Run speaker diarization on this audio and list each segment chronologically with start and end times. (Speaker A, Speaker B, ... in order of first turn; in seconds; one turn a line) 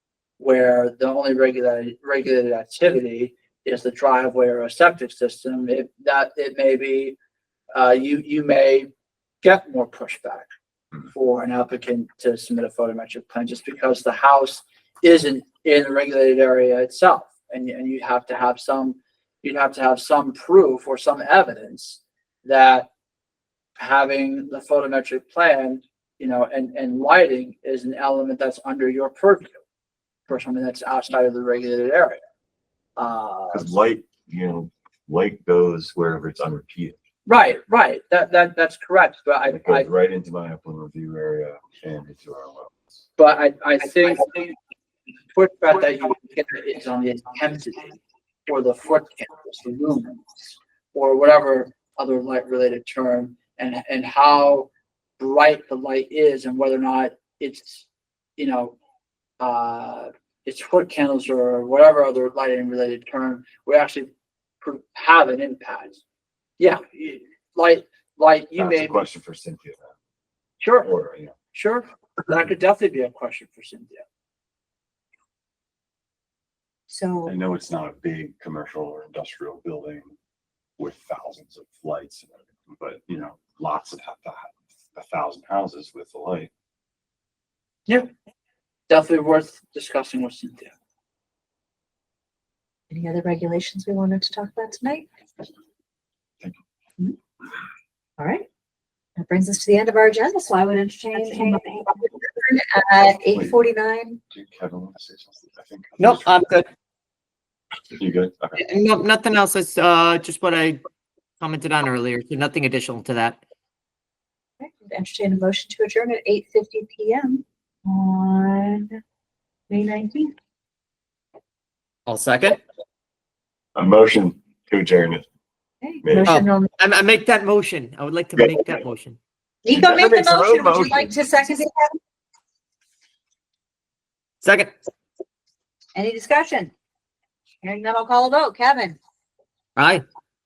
Speaker A: 0.4-7.2
Speaker A: 7.7-8.9
Speaker A: 9.4-10.5
Speaker A: 11.1-22.9
Speaker A: 23.8-29.6
Speaker A: 30.3-32.2
Speaker A: 33.0-33.7
Speaker B: 33.5-37.0
Speaker A: 37.3-39.9
Speaker B: 39.5-43.0
Speaker A: 43.2-44.6
Speaker A: 45.3-47.9
Speaker A: 48.5-58.8
Speaker A: 59.4-64.1
Speaker A: 64.6-66.0
Speaker A: 66.6-69.0
Speaker B: 68.6-69.9
Speaker A: 70.6-70.9
Speaker B: 70.8-71.3
Speaker A: 71.5-74.0
Speaker C: 76.9-77.3
Speaker B: 77.3-80.1
Speaker B: 80.8-86.5
Speaker A: 88.9-90.7
Speaker C: 92.9-95.0
Speaker C: 98.2-98.5
Speaker C: 99.2-104.2
Speaker B: 103.0-103.6
Speaker B: 104.3-106.5
Speaker D: 106.0-106.7
Speaker B: 107.9-108.6
Speaker D: 108.6-110.8
Speaker D: 111.4-113.4
Speaker C: 114.6-119.0
Speaker C: 119.7-120.3
Speaker D: 122.1-122.6
Speaker B: 123.8-125.3
Speaker C: 125.8-126.7
Speaker B: 126.0-126.4
Speaker D: 126.3-129.2
Speaker C: 129.7-132.0
Speaker D: 129.7-131.0
Speaker B: 130.6-130.9
Speaker D: 134.4-134.7
Speaker C: 135.9-136.7
Speaker C: 137.6-139.0
Speaker D: 139.8-140.0